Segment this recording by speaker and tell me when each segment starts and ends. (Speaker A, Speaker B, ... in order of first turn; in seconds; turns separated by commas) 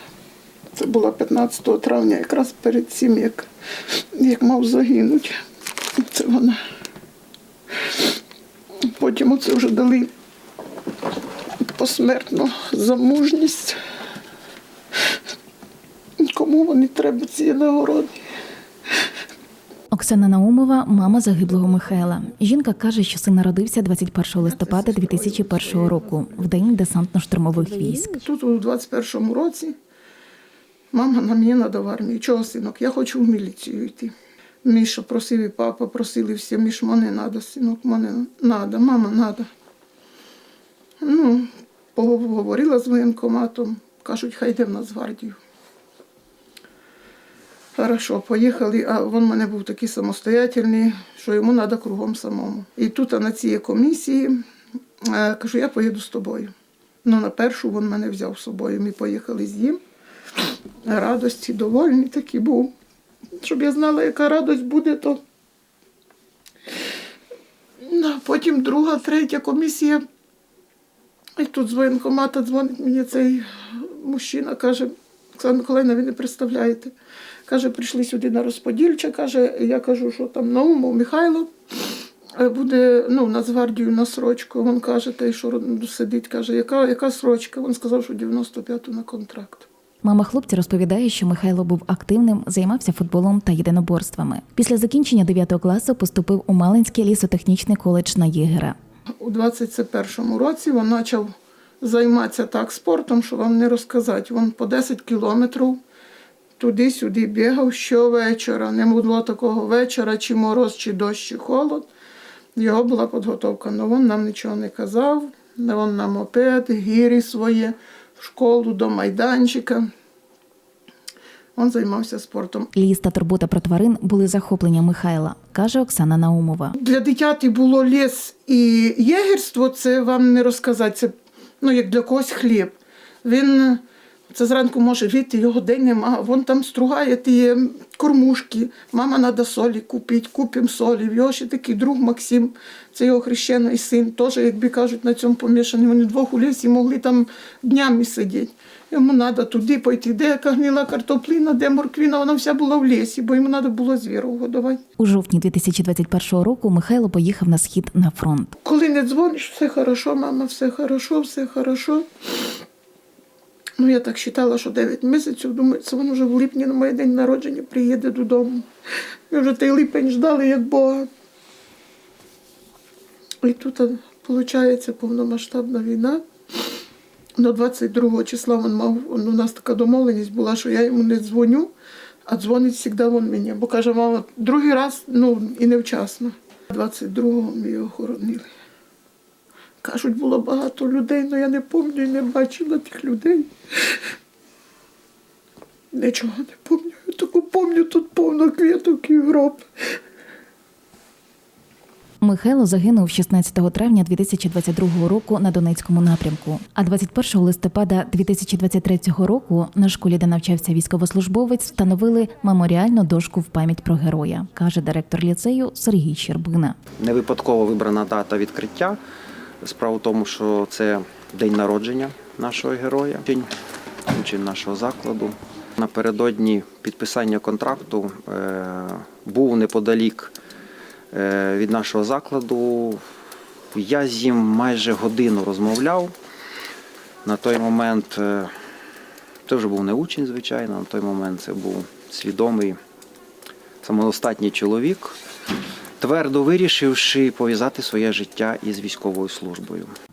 Speaker A: 0.8-3.5, Speaker A: 4.1-5.4, Speaker A: 6.0-6.6, Speaker A: 8.8-10.1, Speaker A: 11.8-13.8, Speaker A: 16.2-18.2, Speaker B: 19.9-28.1, Speaker A: 24.4-26.7, Speaker A: 27.8-29.7, Speaker A: 30.9-34.1, Speaker A: 34.6-39.5, Speaker A: 41.0-45.4, Speaker A: 47.8-54.4, Speaker A: 55.0-56.5, Speaker A: 57.0-59.8, Speaker A: 60.9-62.7, Speaker A: 63.4-65.2, Speaker A: 67.8-70.0, Speaker A: 71.4-76.9, Speaker A: 77.5-81.5, Speaker A: 82.3-89.7, Speaker B: 90.0-98.8, Speaker A: 99.2-105.8, Speaker A: 106.6-111.9, Speaker A: 112.6-119.9, Speaker A: 121.5-122.7, Speaker B: 122.7-126.8, Speaker A: 126.8-154.8, Speaker B: 155.0-158.6, Speaker A: 158.6-162.1, Speaker A: 163.8-168.7, Speaker A: 169.3-171.1, Speaker A: 173.4-176.2, Speaker A: 177.4-181.7, Speaker A: 182.3-188.5, Speaker A: 189.8-193.5, Speaker A: 195.9-199.7, Speaker B: 202.2-216.8, Speaker C: 217.0-219.0, Speaker C: 219.6-223.5, Speaker C: 224.1-230.3, Speaker C: 231.1-233.0, Speaker C: 233.7-236.1, Speaker C: 237.2-238.5, Speaker C: 239.5-242.8, Speaker C: 243.8-245.2, Speaker C: 246.0-249.9